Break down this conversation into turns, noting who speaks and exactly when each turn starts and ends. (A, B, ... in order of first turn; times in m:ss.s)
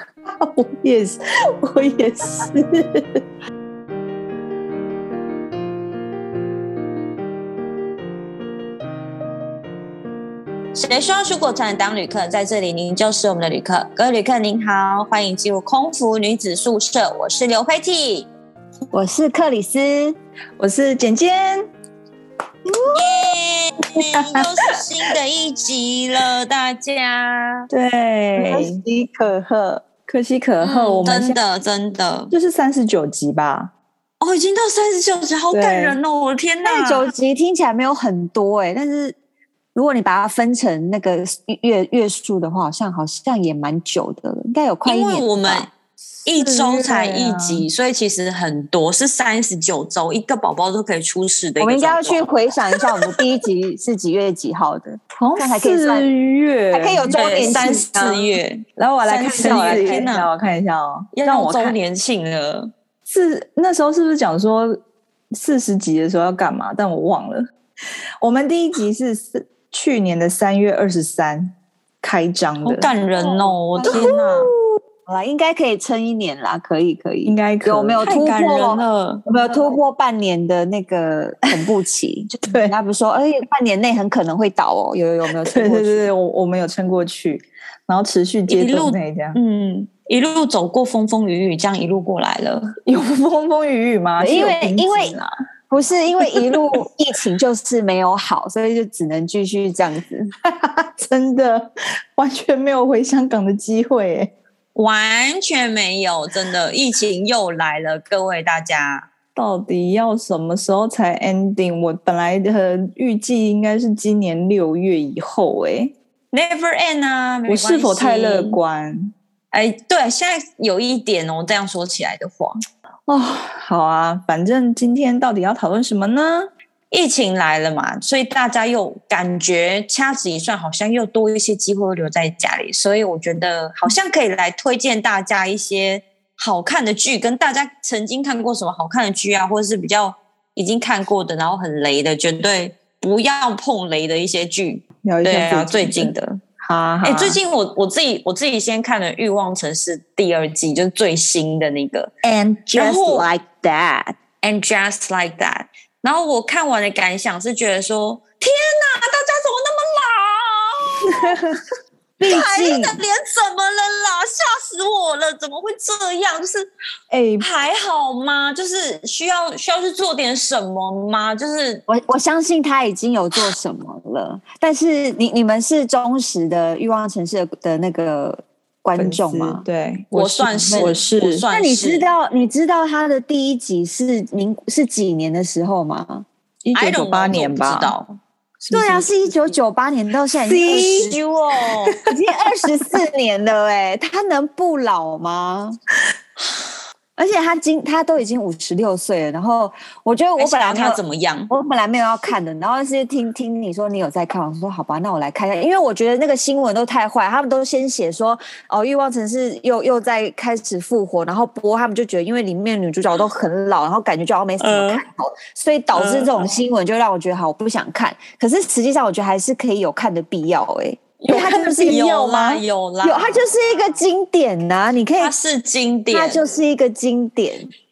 0:00.4-0:03.2 A
0:10.7-0:18.3 B
0:18.9-0:20.2 C
0:20.6-0:21.7 A
0:22.9-0:27.7 B
0:23.0-0:23.2 A
0:24.0-0:24.7 A
0:27.7-0:29.3 A
0:28.4-0:29.8 C
0:29.8-0:31.4 A
0:30.6-0:32.3 B
0:32.3-0:33.7 A
0:34.2-0:37.1 B
0:35.5-0:36.0 A
0:36.6-0:39.2 C
0:39.7-0:45.7 C
0:44.9-0:45.7 B
0:46.2-0:53.2 B
0:46.3-0:47.7 A
0:51.6-0:56.1 C
0:55.2-0:57.8 A
0:56.7-0:58.3 C
0:57.1-1:00.3 B
0:58.8-1:01.8 A
0:59.1-1:00.1 C
1:01.1-1:02.7 B
1:03.1-1:04.8 A
1:05.3-1:07.5 A
1:08.2-1:12.9 A
1:12.6-1:14.5 B
1:13.2-1:26.1 C
1:13.9-1:14.1 A
1:17.3-1:18.1 A
1:18.0-1:19.2 B
1:22.5-1:22.7 A
1:25.4-1:29.4 A
1:28.5-1:32.8 B
1:32.8-1:35.3 A
1:34.2-1:35.2 C
1:35.7-1:40.3 C
1:40.4-1:44.3 A
1:44.8-1:49.1 B
1:49.4-1:55.9 A
1:56.3-1:58.6 B
1:57.5-1:59.1 A
1:59.5-2:02.6 B
2:03.1-2:06.5 A
2:06.9-2:26.4 B
2:25.0-2:26.2 A
2:26.6-2:27.4 C
2:27.0-2:32.1 B
2:32.2-2:34.2 C
2:32.7-2:33.3 B
2:34.4-2:41.4 B
2:42.2-2:43.0 C
2:42.2-2:46.7 B
2:47.1-2:47.5 A
2:47.4-2:51.8 B
2:51.9-2:59.7 C
2:59.0-3:01.5 A
3:00.1-3:02.1 B
3:00.7-3:01.0 C
3:01.5-3:06.3 C
3:06.6-3:08.0 A
3:06.7-3:08.1 B
3:08.6-3:09.0 A
3:08.7-3:11.2 C
3:10.4-3:11.2 A
3:10.6-3:12.0 B
3:12.0-3:15.8 C
3:17.2-3:42.0 C
3:20.4-3:21.5 B
3:34.6-3:35.0 B
3:35.9-3:36.6 B
3:41.2-3:43.5 B
3:41.3-3:42.6 A
3:43.0-3:45.3 C
3:45.2-3:46.5 B
3:46.1-3:47.7 C